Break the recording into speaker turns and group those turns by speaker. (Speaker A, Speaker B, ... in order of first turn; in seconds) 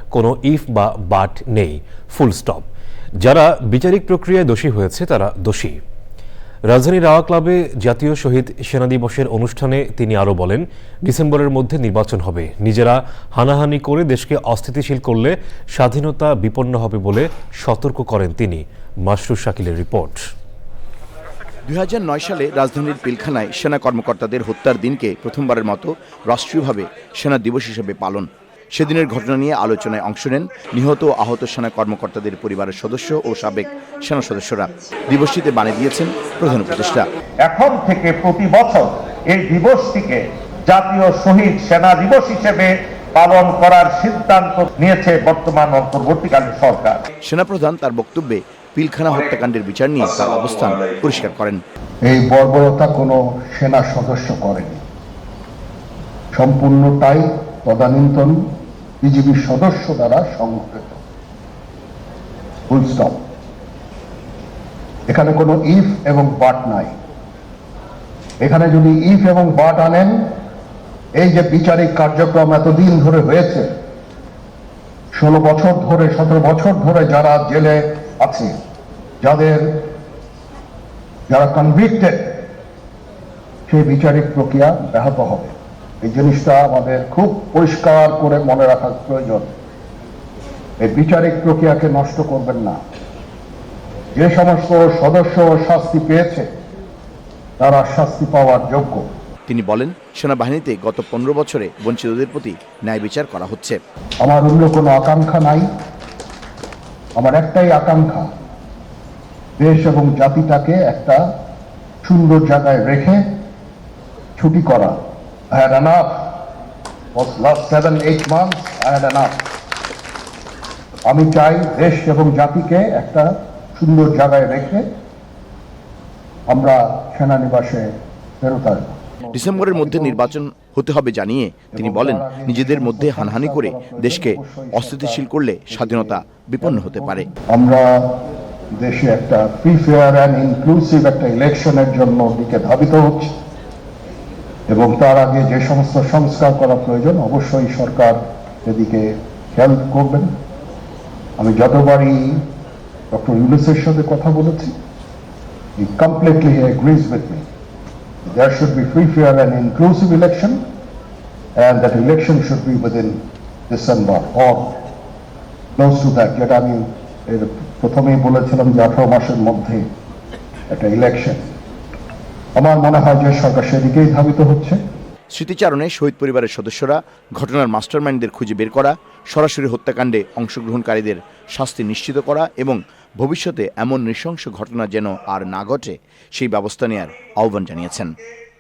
Speaker A: 0.1-2.6, 3.2-5.8, 6.7-20.2
Speaker B: 21.7-37.1, 47.2-51.6, 99.5-103.8, 129.3-137.3, 175.3-188.1
Speaker C: 37.5-47.0
Speaker D: 52.0-54.8, 56.3-58.4, 59.0-61.0, 62.7-63.2, 65.1-66.9, 68.4-70.3, 71.2-73.7, 75.1-78.5, 79.2-79.7, 81.3-82.4, 83.7-89.5, 90.8-92.8, 94.2-96.5, 97.6-99.0, 104.2-105.7, 107.2-108.3, 109.6-111.2, 112.0-113.2, 114.4-115.0, 115.5-116.3, 117.2-119.4, 121.1-124.8, 126.5-127.9, 128.4-130.3, 131.7-138.1, 138.8-143.3, 144.7-150.3, 151.4-152.4, 153.1-154.7, 155.8-157.4, 158.3-160.6, 161.6-163.2, 163.7-164.7, 165.8-169.8, 170.7-171.4, 172.6-174.8